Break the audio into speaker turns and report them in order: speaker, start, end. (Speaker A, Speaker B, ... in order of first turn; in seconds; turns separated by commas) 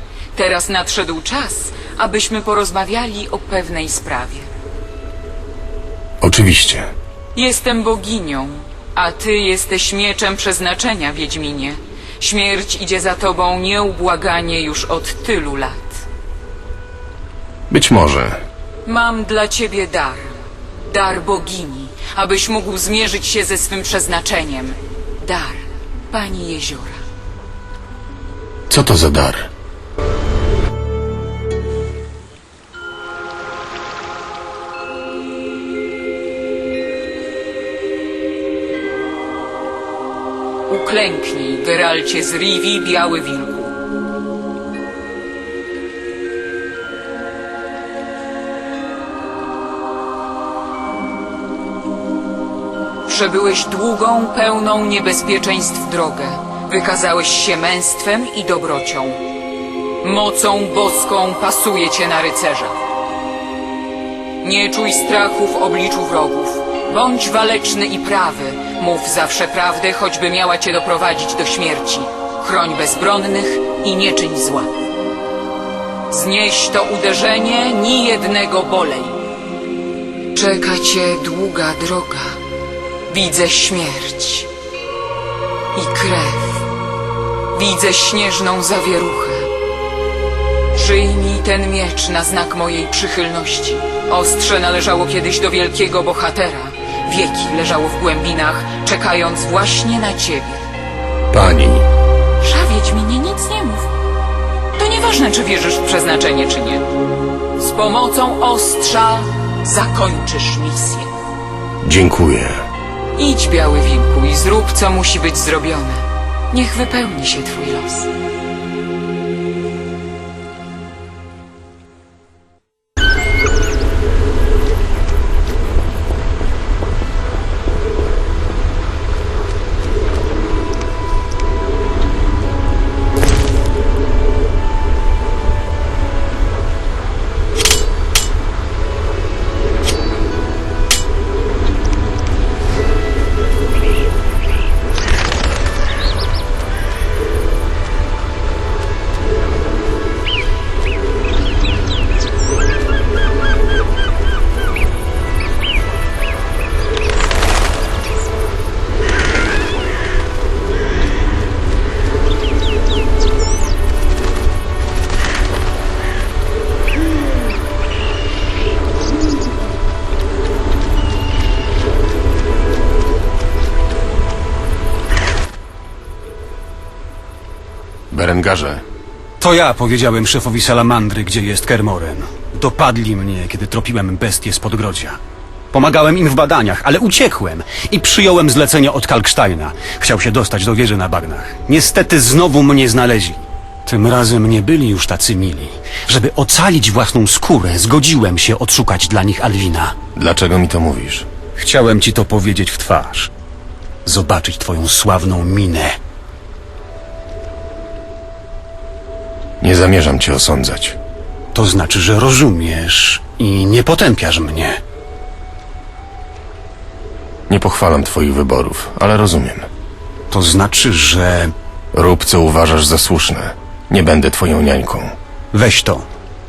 Speaker A: 0.3-4.5, Speaker B: 6.2-6.9, Speaker A: 7.3-16.0, Speaker B: 17.7-18.4, Speaker A: 18.9-27.0, Speaker B: 28.7-29.5, Speaker A: 40.7-43.7, Speaker A: 53.0-59.2, Speaker A: 60.0-62.8, Speaker A: 64.4-74.7, Speaker A: 76.1-79.2, Speaker A: 80.3-82.4, Speaker A: 83.1-84.5, Speaker A: 85.7-86.7, Speaker A: 87.5-89.5, Speaker A: 90.7-100.7, Speaker B: 101.3-101.9, Speaker A: 102.4-103.9, Speaker A: 104.8-106.9, Speaker A: 107.6-111.1, Speaker B: 111.8-112.6, Speaker A: 113.2-118.1, Speaker B: 178.1-178.8, Speaker C: 179.4-185.2, Speaker C: 185.7-199.9, Speaker B: 200.1-201.3, Speaker C: 201.6-203.3, Speaker C: 204.0-206.0, Speaker B: 209.6-211.0, Speaker C: 211.5-214.8, Speaker B: 217.5-219.7, Speaker C: 220.3-221.5, Speaker B: 221.9-225.2, Speaker C: 225.5-226.1